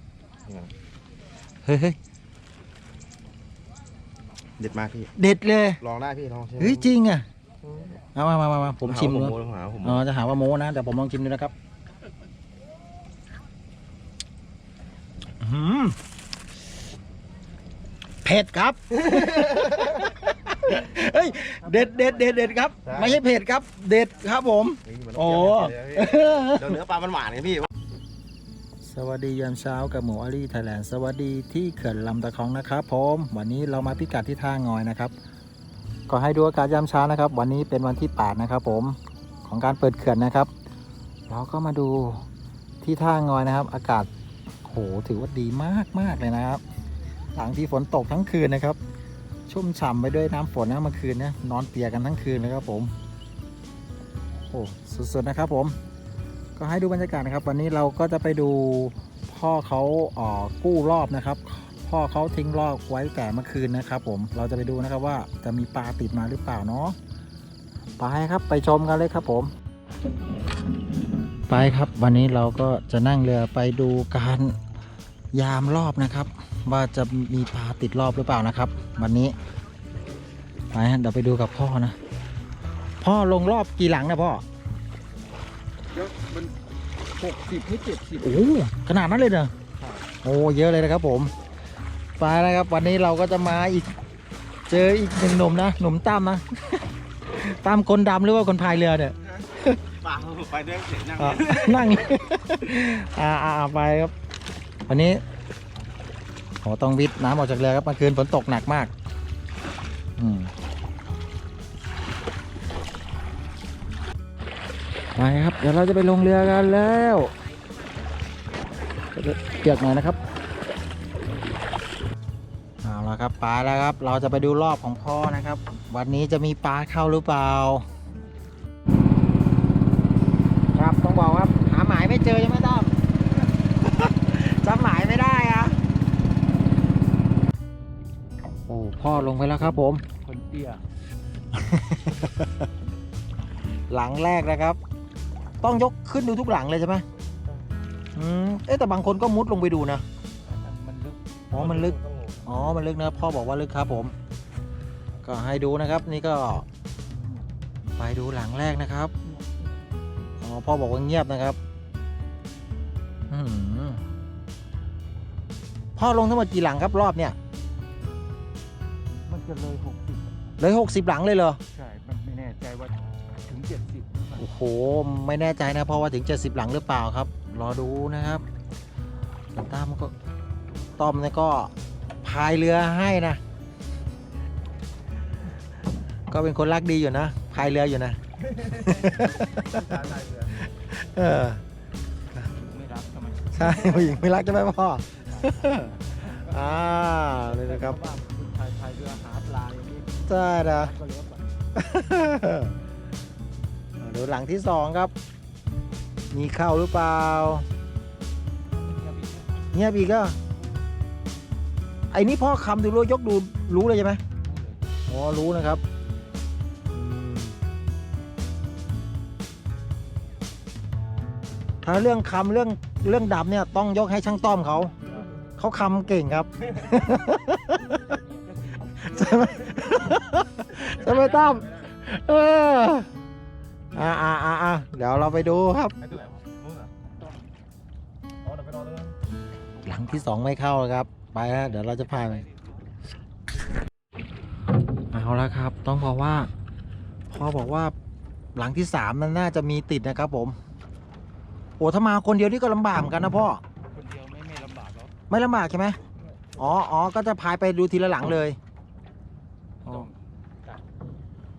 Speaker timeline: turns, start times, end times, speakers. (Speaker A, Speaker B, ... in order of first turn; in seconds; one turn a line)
Speaker A: 0.5-0.7
Speaker B: 1.6-2.0
Speaker A: 4.6-5.1
Speaker B: 5.2-5.8
Speaker A: 5.8-6.9
Speaker B: 6.6-7.2
Speaker A: 7.6-8.0
Speaker B: 8.1-11.5
Speaker A: 8.8-10.1
Speaker B: 15.4-16.0
Speaker B: 18.2-26.8
Speaker A: 18.9-20.0
Speaker C: 21.4-22.5
Speaker A: 22.8-23.2
Speaker A: 24.8-27.7
Speaker B: 28.9-35.1
Speaker B: 36.1-40.5
Speaker B: 41.3-42.2
Speaker B: 42.8-44.1
Speaker B: 44.6-46.6
Speaker B: 47.3-48.8
Speaker B: 49.5-52.9
Speaker B: 54.5-55.8
Speaker B: 56.5-67.0
Speaker B: 68.0-69.5
Speaker B: 71.5-74.5
Speaker B: 75.3-79.3
Speaker B: 80.7-82.0
Speaker B: 83.0-84.4
Speaker C: 85.9-86.5
Speaker C: 87.2-88.4
Speaker B: 88.2-89.5
Speaker B: 90.2-91.3
Speaker B: 92.2-93.9
Speaker B: 94.7-96.8
Speaker B: 97.4-99.8
Speaker A: 100.0-102.2
Speaker B: 101.2-104.1
Speaker B: 104.9-105.2
Speaker B: 106.6-108.9
Speaker B: 110.2-110.5
Speaker B: 115.2-117.3
Speaker B: 119.1-120.2
Speaker B: 122.8-127.9
Speaker B: 130.7-132.9
Speaker B: 133.8-135.8
Speaker B: 138.7-140.0
Speaker C: 140.2-140.8
Speaker B: 141.5-142.7
Speaker B: 143.9-144.8
Speaker B: 145.6-147.1
Speaker B: 148.2-150.0
Speaker C: 150.5-151.2
Speaker B: 151.5-154.2
Speaker A: 151.5-152.5
Speaker B: 155.2-156.7
Speaker B: 158.0-159.1
Speaker B: 160.4-161.6
Speaker B: 163.3-164.0
Speaker B: 166.0-167.4
Speaker C: 169.3-170.4
Speaker B: 170.6-171.6
Speaker C: 171.7-174.4
Speaker B: 174.4-178.4
Speaker B: 179.6-180.1
Speaker B: 181.0-181.7
Speaker B: 182.2-183.4
Speaker B: 186.3-188.2
Speaker B: 188.7-189.8
Speaker C: 189.7-190.5
Speaker B: 190.6-191.6
Speaker C: 192.5-194.2
Speaker B: 193.6-195.9
Speaker C: 195.2-201.5
Speaker B: 196.4-198.0
Speaker B: 200.3-200.9
Speaker B: 201.8-202.7
Speaker B: 204.0-205.1
Speaker B: 206.3-207.7
Speaker C: 208.7-209.7
Speaker B: 209.7-210.4
Speaker B: 212.1-214.2
Speaker C: 214.4-214.9
Speaker B: 215.1-215.8
Speaker B: 216.9-217.6
Speaker B: 221.8-224.9
Speaker B: 225.6-228.0
Speaker C: 228.1-230.1
Speaker B: 229.0-233.1
Speaker C: 230.8-231.5
Speaker B: 233.9-236.0
Speaker A: 236.0-236.9
Speaker A: 238.5-239.1
Speaker B: 239.8-242.4
Speaker B: 245.1-246.5
Speaker B: 247.3-247.9
Speaker B: 248.6-250.6
Speaker B: 251.8-253.6
Speaker C: 253.9-255.1
Speaker B: 255.3-256.0
Speaker B: 256.6-258.6
Speaker C: 259.8-260.8
Speaker B: 259.9-260.1